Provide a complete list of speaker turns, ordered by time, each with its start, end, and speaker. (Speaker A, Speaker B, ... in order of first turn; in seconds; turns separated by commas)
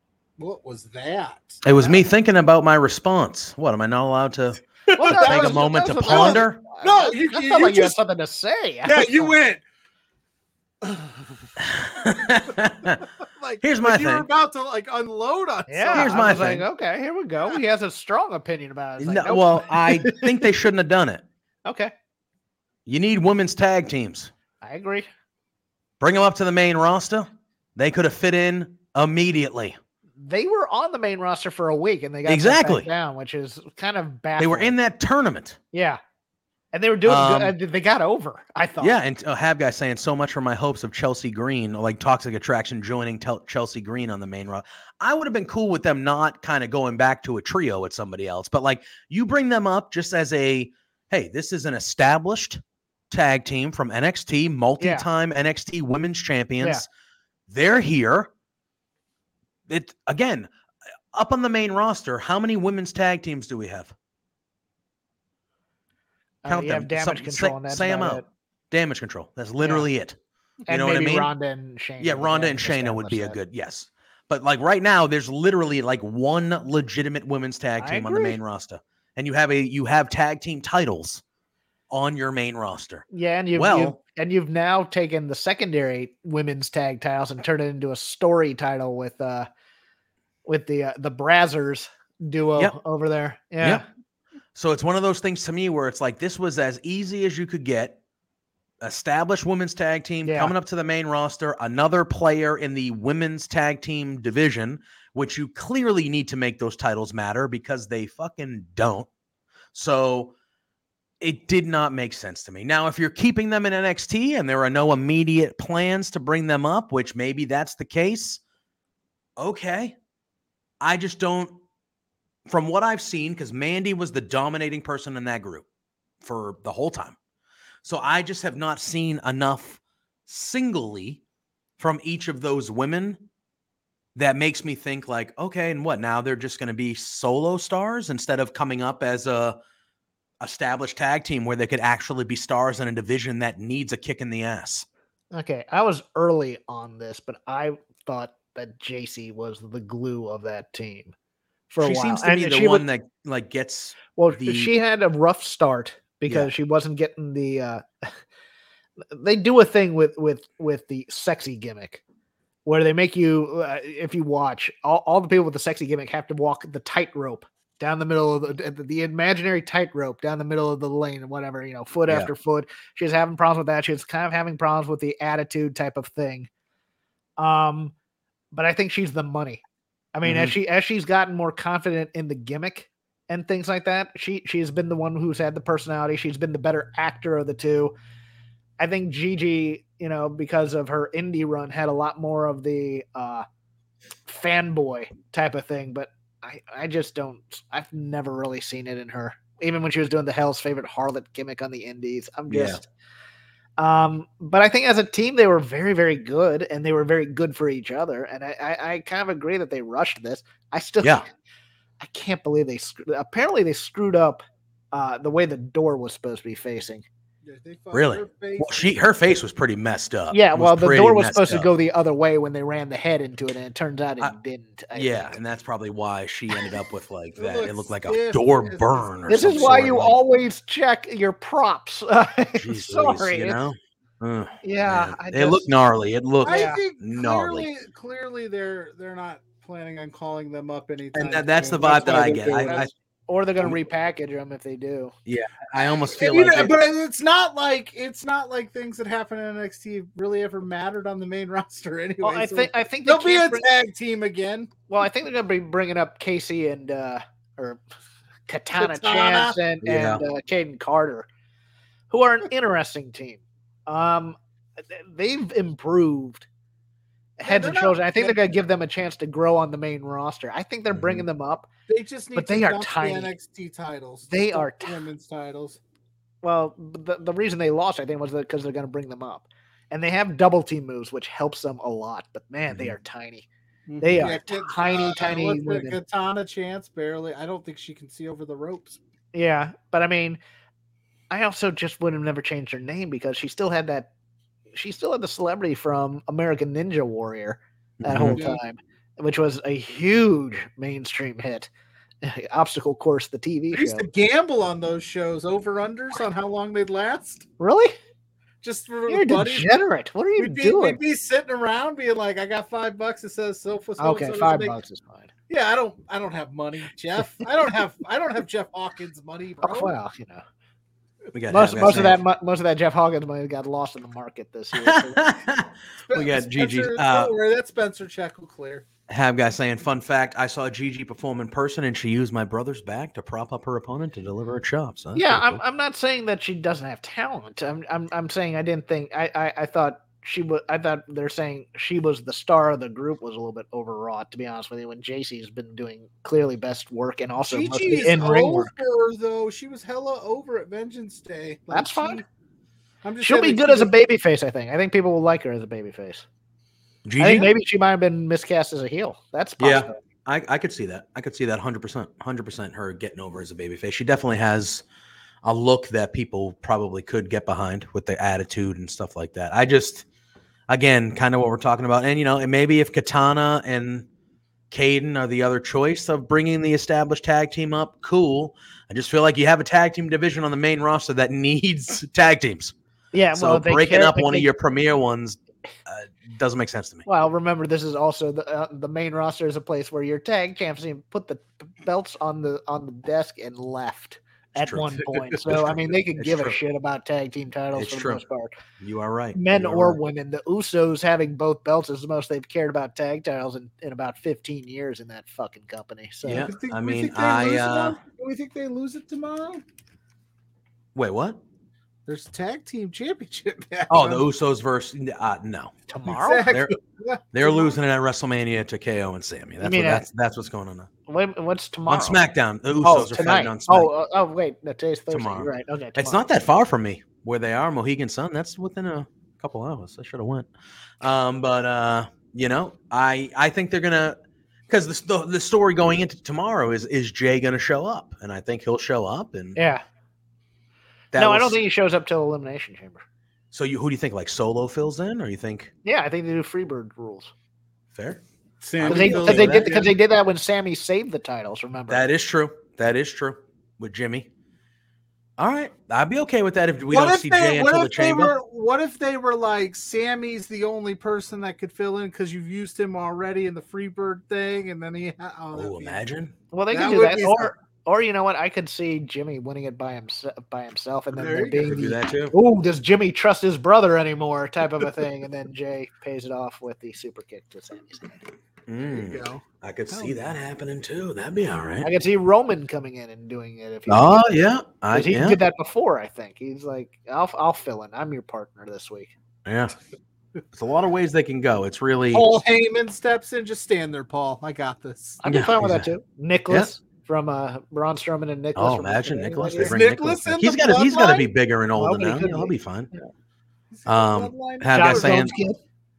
Speaker A: 0.4-2.0, Speaker B: 1.6-6.6, Speaker A: 4.9-8.0, Speaker C: 5.0-9.3, Speaker A: 8.8-9.6, Speaker A: 10.8-11.5, Speaker B: 11.6-13.0, Speaker A: 12.0-12.5, Speaker A: 13.2-16.5, Speaker B: 13.6-14.2, Speaker C: 15.7-20.3, Speaker B: 15.9-16.7, Speaker B: 19.0-21.2, Speaker C: 21.6-21.9, Speaker B: 22.9-24.3, Speaker C: 24.6-25.1, Speaker B: 26.0-29.8, Speaker C: 30.2-34.7, Speaker B: 32.2-32.9, Speaker B: 34.4-35.6, Speaker C: 35.7-36.0, Speaker C: 36.7-39.0, Speaker B: 37.0-37.5, Speaker B: 38.8-56.9, Speaker C: 54.8-55.0, Speaker C: 56.6-56.8, Speaker B: 57.5-58.3, Speaker B: 59.7-60.5, Speaker B: 61.1-63.9, Speaker C: 66.4-68.2, Speaker B: 66.5-70.2, Speaker C: 69.6-69.9, Speaker C: 70.7-73.4, Speaker B: 70.7-71.3, Speaker B: 72.0-81.2, Speaker C: 77.8-78.4, Speaker B: 81.9-84.0, Speaker C: 83.1-89.5, Speaker C: 90.5-93.8, Speaker B: 94.5-98.0, Speaker B: 98.8-109.1, Speaker C: 100.2-100.5, Speaker B: 109.7-110.3, Speaker B: 111.2-118.4, Speaker B: 119.4-120.0, Speaker B: 120.8-121.6, Speaker B: 122.5-125.6, Speaker B: 126.2-127.2, Speaker B: 127.8-131.2, Speaker B: 131.8-133.2, Speaker B: 134.1-139.6, Speaker B: 140.4-144.8, Speaker C: 145.3-151.1, Speaker C: 151.7-152.8, Speaker B: 151.8-154.7, Speaker C: 154.1-158.1, Speaker B: 156.3-156.5, Speaker C: 159.1-162.0, Speaker C: 162.7-176.5, Speaker C: 177.4-177.9, Speaker C: 178.5-179.6, Speaker C: 180.1-187.9, Speaker B: 180.2-180.5, Speaker C: 188.8-193.4, Speaker C: 194.2-202.9, Speaker B: 202.5-202.8, Speaker C: 203.8-211.3, Speaker C: 212.0-217.0, Speaker A: 217.4-218.9, Speaker B: 217.9-221.7, Speaker C: 220.3-225.3, Speaker B: 224.9-230.1, Speaker A: 227.3-230.0, Speaker C: 229.3-233.6, Speaker B: 232.6-237.7, Speaker C: 234.6-235.6, Speaker A: 236.4-242.9, Speaker C: 236.5-236.8, Speaker B: 241.1-242.9, Speaker C: 243.3-245.1, Speaker B: 245.2-246.8, Speaker A: 246.1-254.7, Speaker C: 252.2-253.6, Speaker C: 254.9-257.8, Speaker C: 258.5-261.3, Speaker A: 258.8-259.6, Speaker B: 259.8-260.2, Speaker C: 262.1-266.5, Speaker C: 267.4-271.7, Speaker A: 267.4-268.4, Speaker B: 270.9-271.2, Speaker A: 271.9-275.8, Speaker C: 272.3-273.3, Speaker C: 274.3-275.0, Speaker C: 276.4-283.4, Speaker B: 282.7-282.9, Speaker A: 283.9-289.0, Speaker C: 284.0-286.0, Speaker C: 289.3-290.4, Speaker C: 291.3-294.1, Speaker C: 294.7-301.7, Speaker B: 298.0-298.4, Speaker A: 298.2-298.6, Speaker C: 302.2-304.1, Speaker A: 303.7-307.5, Speaker C: 307.6-307.9, Speaker A: 308.6-309.7, Speaker C: 309.1-311.0, Speaker A: 310.4-314.8, Speaker C: 314.0-315.3, Speaker A: 315.5-319.9, Speaker C: 319.6-320.4, Speaker B: 321.3-322.2, Speaker C: 321.5-325.3, Speaker B: 324.8-327.3, Speaker A: 326.1-328.8, Speaker B: 329.1-335.6, Speaker C: 335.1-348.7, Speaker A: 347.4-352.2, Speaker C: 351.7-352.2, Speaker A: 353.0-353.9, Speaker C: 353.2-356.2, Speaker B: 357.0-357.5, Speaker C: 357.2-359.9, Speaker B: 359.6-364.8, Speaker B: 365.4-370.0, Speaker B: 370.7-374.1, Speaker B: 374.7-382.7, Speaker C: 383.1-384.5, Speaker B: 383.3-387.1, Speaker C: 387.0-398.6, Speaker B: 394.5-396.6, Speaker B: 397.7-398.2, Speaker B: 398.8-400.0, Speaker C: 399.3-406.5, Speaker B: 406.2-408.0, Speaker A: 406.2-409.6, Speaker B: 410.9-411.4, Speaker A: 412.1-414.2, Speaker B: 413.9-415.7, Speaker C: 415.9-416.5, Speaker A: 416.1-417.8, Speaker B: 416.4-416.7, Speaker B: 417.3-420.9, Speaker C: 419.6-420.1, Speaker C: 421.1-422.2, Speaker B: 421.9-423.9, Speaker C: 422.8-426.2, Speaker B: 425.1-430.5, Speaker B: 431.0-439.6, Speaker C: 439.5-439.8, Speaker B: 441.1-441.6, Speaker C: 441.1-443.0, Speaker B: 443.5-445.7, Speaker C: 445.8-447.3, Speaker B: 447.9-448.2, Speaker A: 448.6-449.9, Speaker B: 448.8-449.7, Speaker C: 448.9-452.1, Speaker B: 451.9-454.3, Speaker B: 455.4-458.3, Speaker A: 456.9-466.0, Speaker B: 465.5-466.3, Speaker C: 466.5-478.2, Speaker A: 466.7-467.5, Speaker A: 471.1-471.8, Speaker B: 471.6-472.4, Speaker B: 478.7-481.9, Speaker A: 478.9-480.2, Speaker C: 481.8-484.2, Speaker B: 483.9-485.4, Speaker C: 484.9-489.1, Speaker B: 489.4-489.7, Speaker B: 490.5-492.2, Speaker A: 492.1-495.2, Speaker C: 495.2-499.8, Speaker B: 495.3-495.9, Speaker B: 498.6-502.9, Speaker A: 499.5-501.3, Speaker C: 501.8-503.1, Speaker A: 503.7-505.5, Speaker B: 503.9-505.3, Speaker C: 504.7-505.6